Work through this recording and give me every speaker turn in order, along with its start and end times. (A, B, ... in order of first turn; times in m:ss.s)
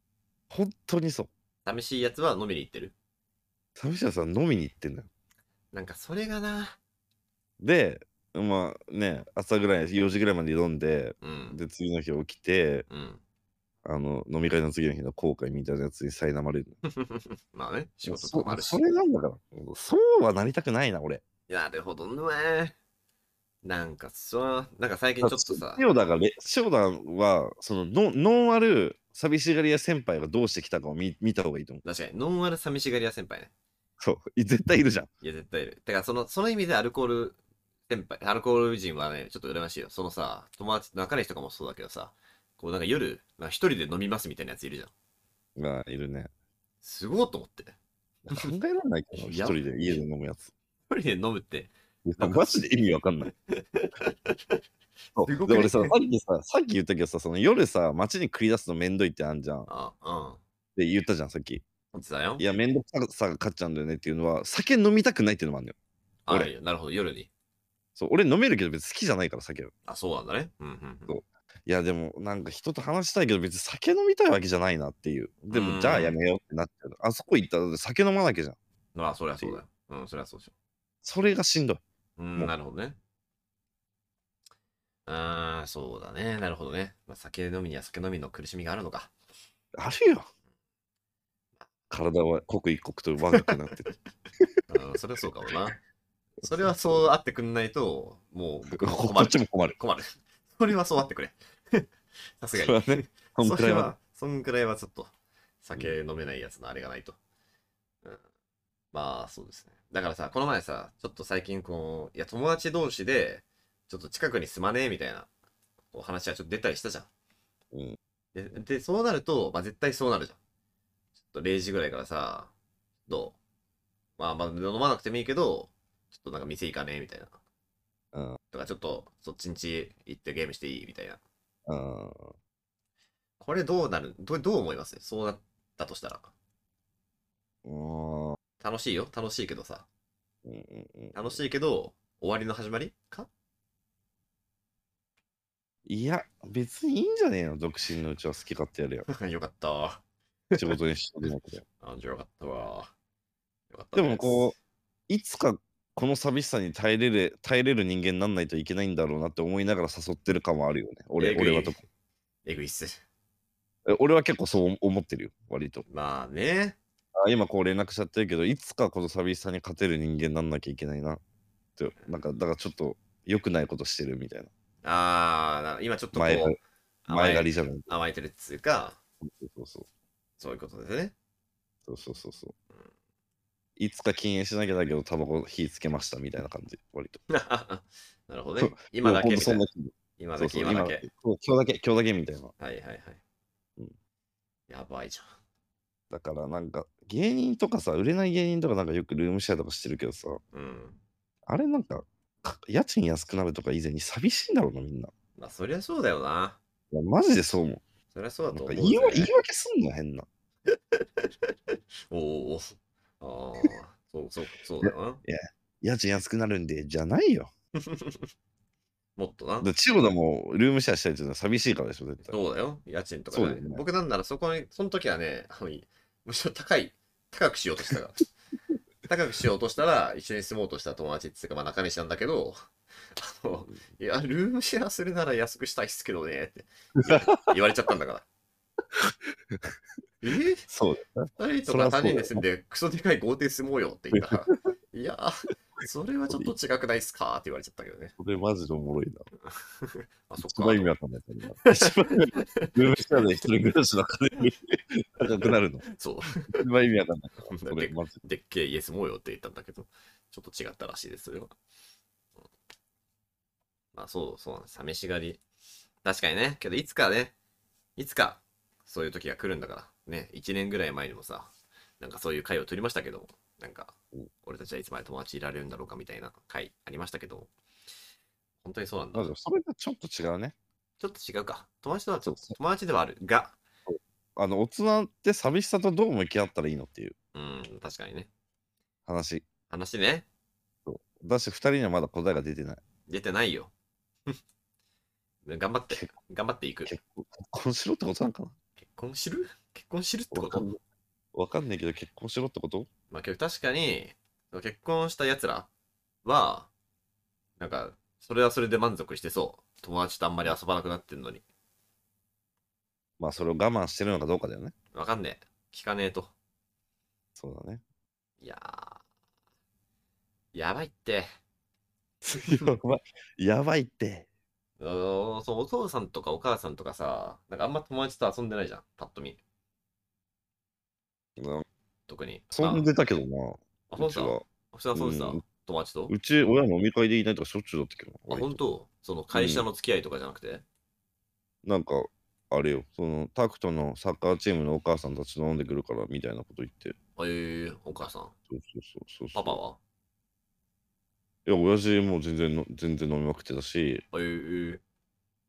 0:00.5-0:01.3 A
0:01.6-0:02.9 B
0:03.8-0:05.1 A
0:05.7-0:06.8 B
0:07.6-0:12.9 A
0:11.2-0:11.6 B
0:12.9-0:13.2 B
0:13.8-0:16.8 A
0:16.9-0:18.8 B
0:18.0-0:21.2 A
0:21.5-0:22.7 B
0:23.6-0:25.8 B
0:25.2-0:31.8 A
0:31.8-0:33.5 B
0:34.0-0:35.1 A
0:35.2-0:37.4 B
0:37.9-0:44.9 B
0:45.6-0:46.3 A
0:46.8-0:47.7 B
0:48.3-0:50.5 A
0:49.2-0:49.6 B
0:50.9-0:52.4 B
0:52.0-0:53.3 A
0:53.5-0:54.6 B
0:55.2-0:59.7 A
0:55.2-0:56.0 B
0:59.7-1:00.4 B
1:00.8-1:01.6 A
1:01.9-1:02.4 B
1:02.4-1:05.8 A
1:06.2-1:07.3 B
1:08.0-1:09.7 A
1:09.9-1:11.2 B
1:11.1-1:18.6 A
1:15.5-1:16.2 B
1:18.9-1:20.5 B
1:21.0-1:21.8 A
1:22.2-1:23.0 B
1:25.0-1:29.1 B
1:29.7-1:30.2 A
1:31.9-1:34.6 A
1:34.7-1:35.8 B
1:36.4-1:37.1 A
1:36.4-1:45.1 B
1:38.7-1:39.8 A
1:42.5-1:43.9 A
1:45.6-1:47.2 B
1:48.9-1:55.3 B
1:55.9-1:57.1 B
1:57.7-1:58.0 A
1:58.3-2:00.4 B
2:01.2-2:02.5 B
2:03.1-2:03.4 B
2:04.2-2:07.3 B
2:08.1-2:08.4 A
2:08.5-2:11.2 B
2:11.7-2:12.3 A
2:13.4-2:16.3 B
2:17.6-2:18.4 A
2:18.6-2:19.9 B
2:20.4-2:21.4 A
2:21.1-2:23.3 B
2:25.8-2:29.1 A
2:29.1-2:30.7 B
2:30.6-2:31.6 A
2:31.8-2:32.9 B
2:33.7-2:34.5 B
2:33.9-2:34.6 A
2:35.1-2:41.8 A
2:41.2-2:41.8 B
2:42.4-2:43.0 B
2:43.8-2:45.8 A
2:45.9-2:46.8 B
2:47.1-2:51.2 A
2:51.8-2:54.5 A
2:54.8-2:59.0 B
2:56.1-2:56.6 A
2:57.1-2:57.9 A
2:59.2-2:59.9 A
3:00.4-3:01.1 B
3:01.8-3:02.5 A
3:03.8-3:07.2 A
3:07.3-3:09.6 B
3:08.6-3:12.5 A
3:10.2-3:11.0 B
3:12.6-3:13.2 B
3:14.7-3:15.3 B
3:16.1-3:20.4 A
3:20.5-3:21.0 B
3:21.5-3:25.1 A
3:25.4-3:26.6 B
3:26.9-3:27.8 A
3:28.1-3:29.3 B
3:28.5-3:30.3 A
3:30.7-3:31.5 B
3:32.1-3:35.2 B
3:34.8-3:37.5 A
3:37.8-3:38.3 B
3:39.2-3:39.7 B
3:39.6-3:42.3 A
3:42.2-3:48.2 B
3:43.3-3:43.8 A
3:49.1-3:52.6 B
3:53.2-3:58.2 B
3:57.0-3:57.5 A
3:58.9-3:59.7 A
4:00.2-4:00.6 B
4:00.7-4:02.4 A
4:01.4-4:08.1 B
4:04.1-4:04.5 A
4:08.2-4:09.2 A
4:09.5-4:10.9 B
4:10.4-4:15.9 A
4:11.6-4:13.2 B
4:15.4-4:16.6 B
4:16.4-4:18.2 A
4:17.5-4:21.5 B
4:23.9-4:25.4 B
4:26.0-4:27.3 B
4:28.0-4:37.5 B
4:38.6-4:39.3 B
4:39.1-4:40.5 A
4:41.0-4:43.6 B
4:42.2-4:42.6 A
4:43.9-4:47.1 A
4:47.3-4:48.3 B
4:49.1-4:49.4 A
4:49.7-4:50.2 B
4:50.8-4:52.8 A
4:53.1-4:53.7 B
4:55.4-4:56.9 B
4:56.8-4:58.5 A
4:58.8-5:00.7 B
5:00.3-5:00.8 A
5:01.3-5:02.9 A
5:03.1-5:05.7 B
5:06.2-5:06.7 B
5:07.6-5:11.4 B
5:13.2-5:14.7 A
5:14.9-5:16.3 B
5:17.4-5:17.8 A
5:18.4-5:19.0 B
5:20.5-5:21.3 B
5:22.2-5:24.3 A
5:22.3-5:22.8 B
5:24.8-5:29.4 B
5:31.4-5:31.6 A
5:32.1-5:32.9 B
5:32.5-5:34.4 A
5:33.9-5:36.1 B
5:34.9-5:35.4 A
5:36.1-5:38.6 A
5:38.3-5:40.6 B
5:39.3-5:39.6 A
5:41.6-5:47.0 A
5:47.2-5:48.3 B
5:48.5-5:49.6 A
5:49.3-5:49.8 B
5:51.4-5:54.0 A
5:54.1-5:54.8 B